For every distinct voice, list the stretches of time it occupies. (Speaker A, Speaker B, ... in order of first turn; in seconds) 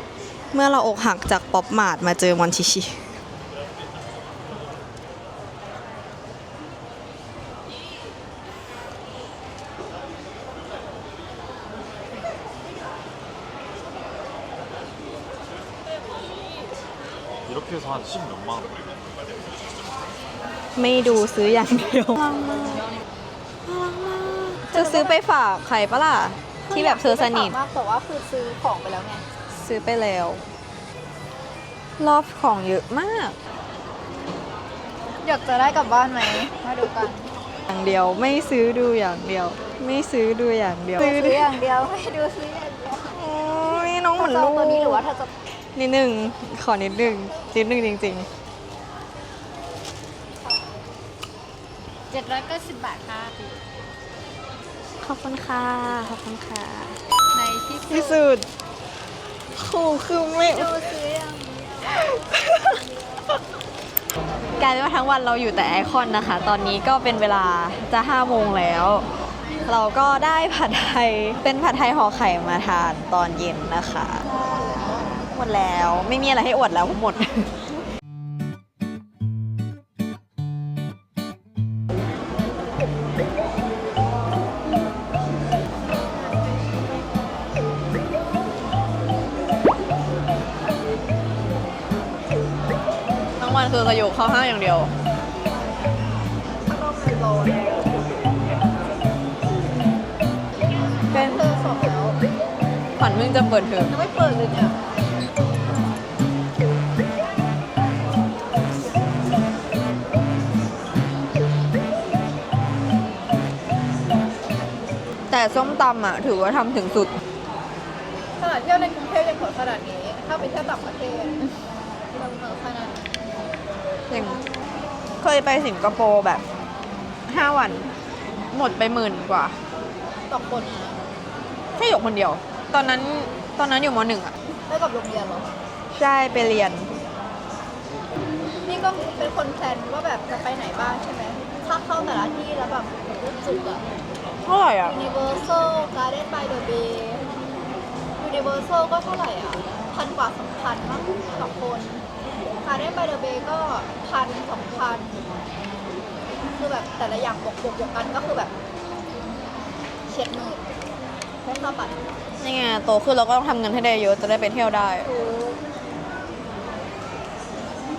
Speaker A: 0.5-3.1, 20.8-22.9, 23.6-27.6, 29.5-30.4, 32.0-33.3, 37.7-41.5, 43.1-45.0, 45.7-48.3, 55.0-57.0, 57.9-58.5, 59.5-60.9, 61.9-62.8, 64.6-74.3, 75.0-77.5, 93.4-94.9, 101.1-101.4, 103.0-103.9, 115.3-117.1, 124.1-124.4, 125.2-126.4, 127.3-127.9, 128.5-129.6, 131.8-134.3, 135.9-136.9, 144.4-144.9, 162.4-165.1
Speaker B: 24.7-25.1, 26.7-29.2, 35.2-37.3, 41.0-45.3, 52.1-53.6, 57.3-58.2, 60.3-61.8, 74.3-75.2, 96.5-97.9, 100.8-102.2, 103.9-104.8, 118.4-121.6, 122.1-123.2, 130.3-131.0, 134.7-135.5, 138.7-143.8, 144.8-147.2, 148.2-152.0, 152.6-155.2, 156.6-158.5, 160.1-160.7, 161.4-162.0, 165.1-165.6